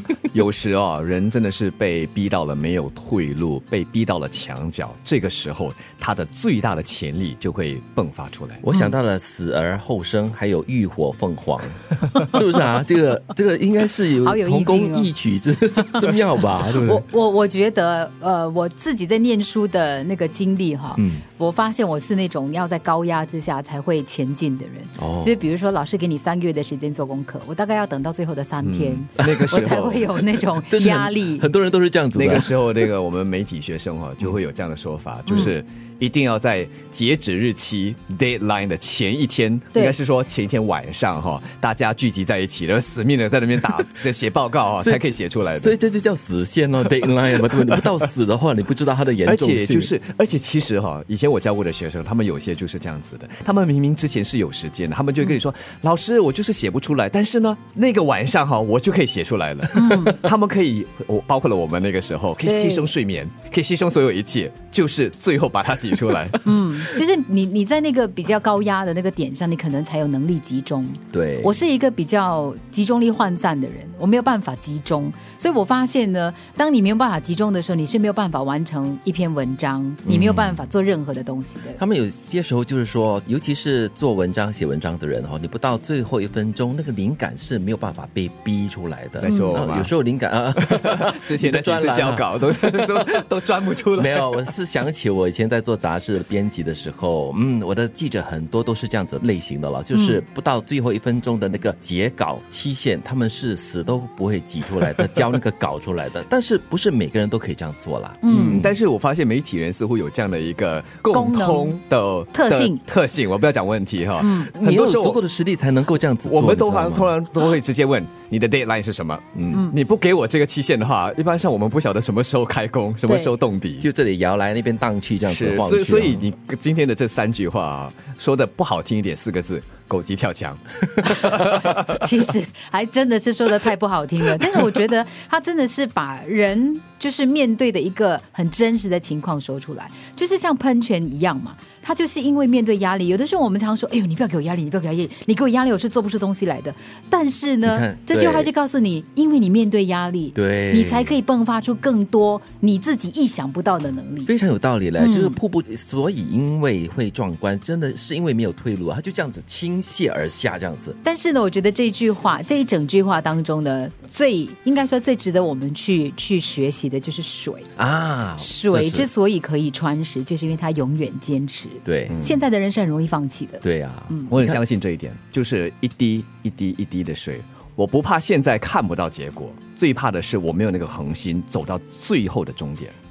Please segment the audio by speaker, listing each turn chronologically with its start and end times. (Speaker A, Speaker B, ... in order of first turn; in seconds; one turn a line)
Speaker A: 0.3-8.6
Speaker B: 8.6-17.1
Speaker C: 14.2-15.1
Speaker C: 16.8-31.5
Speaker B: 20.9-21.2
Speaker B: 25.0-25.3
Speaker A: 28.6-30.2
Speaker B: 30.6-32.8
Speaker A: 32.1-45.8
Speaker C: 35.3-35.5
Speaker B: 44.8-49.9
Speaker A: 49.2-66.8
Speaker C: 59.7-60.2
Speaker C: 62.5-62.9
Speaker C: 66.4-81.8
Speaker B: 71.1-71.5
Speaker B: 80.0-80.6
Speaker B: 81.8-93.0
Speaker A: 89.2-89.9
Speaker C: 89.3-89.5
Speaker A: 90.6-94.5
Speaker B: 94.0-108.7
Speaker C: 99.9-100.2
Speaker C: 108.2-108.7
Speaker A: 108.3-115.2
Speaker C: 111.1-111.8
Speaker C: 112.3-112.8
Speaker C: 114.2-114.5
Speaker B: 114.5-117.2
Speaker A: 116.2-123.9
Speaker B: 119.3-119.7
Speaker C: 123.0-123.3
Speaker B: 123.8-126.3
Speaker A: 125.2-132.0
Speaker C: 131.8-154.3
Speaker B: 147.7-148.5
Speaker B: 150.3-151.1
Speaker B: 154.3-161.0
Speaker C: 155.0-155.4
Speaker C: 161.0-167.7
Speaker B: 167.8-169.1
Speaker C: 168.4-174.4
Speaker B: 171.8-172.2
Speaker B: 173.6-174.5
Speaker A: 174.3-182.9